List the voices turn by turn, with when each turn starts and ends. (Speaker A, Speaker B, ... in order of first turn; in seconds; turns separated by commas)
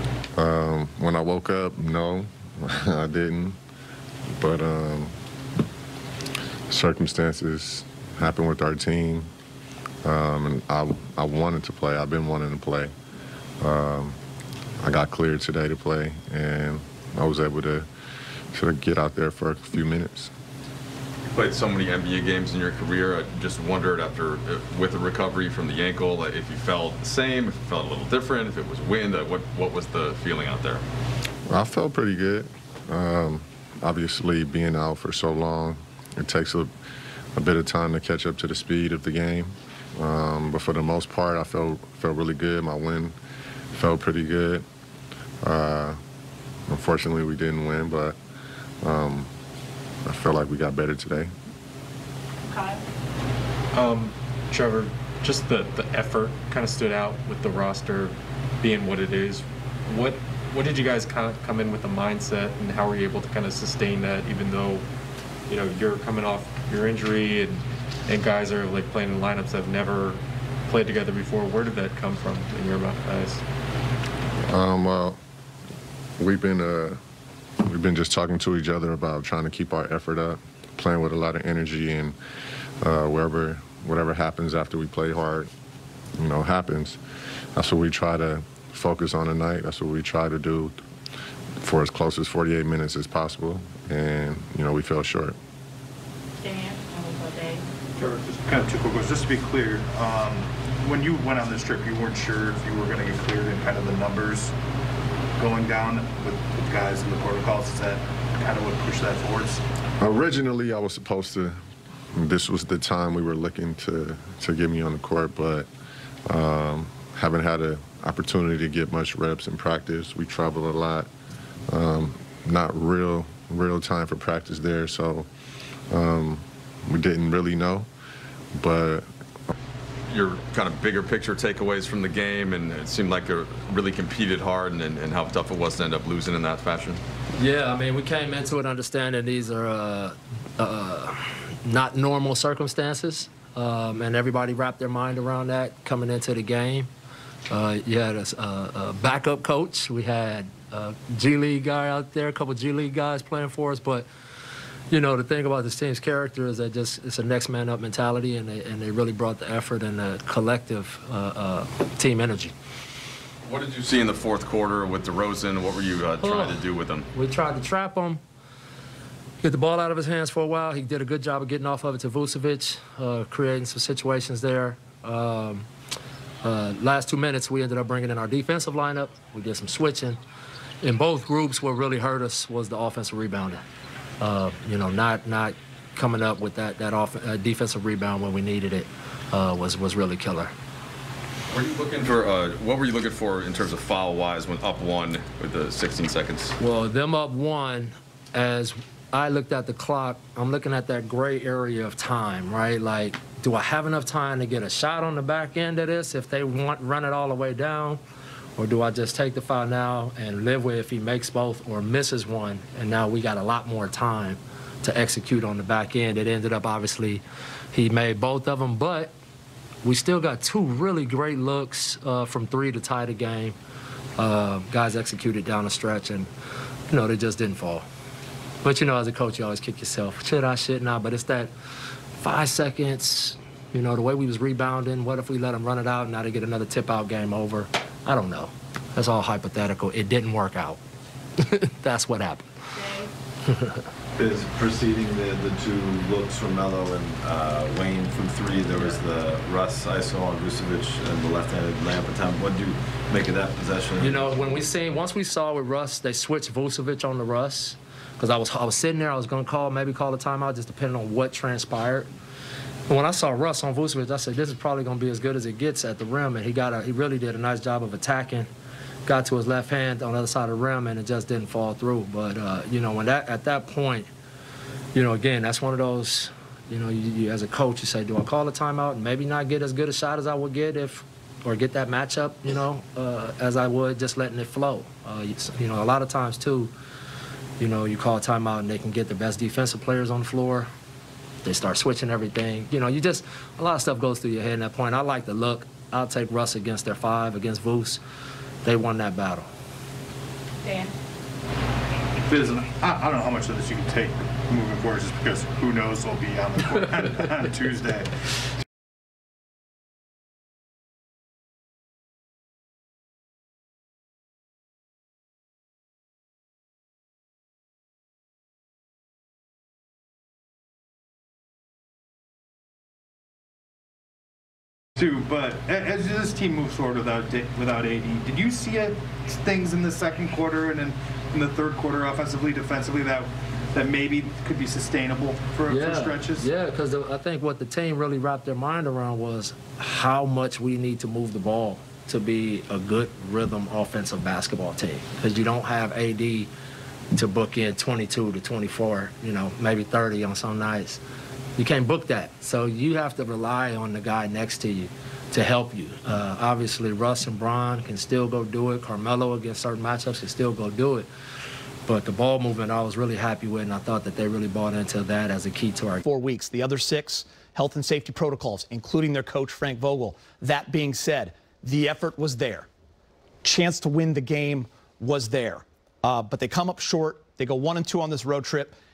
Speaker A: 0.4-3.6, Speaker A: 4.4-5.1, Speaker A: 6.7-9.3, Speaker A: 10.0-12.9, Speaker A: 13.6-14.2, Speaker A: 14.8-17.9, Speaker A: 18.5-20.3, Speaker B: 21.3-30.8, Speaker A: 31.5-36.7, Speaker A: 37.4-43.1, Speaker A: 43.7-44.6, Speaker A: 45.4-46.0, Speaker A: 46.7-48.2, Speaker A: 48.8-49.3, Speaker A: 50.0-51.3, Speaker C: 52.5-52.8, Speaker D: 53.7-64.8, Speaker D: 65.5-73.4, Speaker A: 74.5-75.2, Speaker A: 76.2-77.0, Speaker A: 77.6-82.2, Speaker A: 82.8-85.5, Speaker A: 86.2-87.0, Speaker A: 87.5-90.8, Speaker A: 91.6-95.4, Speaker C: 96.4-97.6, Speaker E: 98.0-104.5, Speaker E: 105.4-109.6, Speaker A: 110.0-111.6, Speaker A: 112.2-115.7, Speaker A: 116.3-121.1, Speaker A: 121.7-125.3, Speaker A: 125.9-127.9, Speaker A: 128.6-129.1, Speaker B: 130.1-137.0, Speaker F: 137.3-146.9, Speaker F: 147.5-154.1, Speaker F: 154.9-162.5, Speaker B: 163.4-167.1, Speaker F: 166.2-168.2, Speaker F: 169.4-175.7, Speaker F: 176.4-180.2, Speaker F: 180.8-183.6, Speaker F: 184.2-190.5, Speaker B: 191.5-196.6, Speaker F: 196.6-208.0, Speaker F: 208.6-217.2, Speaker F: 217.7-219.1, Speaker F: 219.8-223.6, Speaker F: 224.2-226.3, Speaker F: 226.9-227.9, Speaker F: 228.6-231.5, Speaker F: 232.2-240.8, Speaker F: 241.4-243.8, Speaker C: 242.8-243.1, Speaker G: 244.2-254.5, Speaker F: 254.0-262.1, Speaker F: 262.9-268.5, Speaker F: 269.1-274.1, Speaker F: 274.9-286.7, Speaker F: 287.6-290.7, Speaker F: 291.4-298.0, Speaker F: 298.6-299.5, Speaker C: 300.7-300.9, Speaker E: 302.3-308.1, Speaker E: 325.0-336.5, Speaker F: 335.6-346.5, Speaker F: 347.1-351.0, Speaker F: 351.6-361.1, Speaker F: 361.9-366.0, Speaker H: 366.1-372.7, Speaker H: 373.4-378.8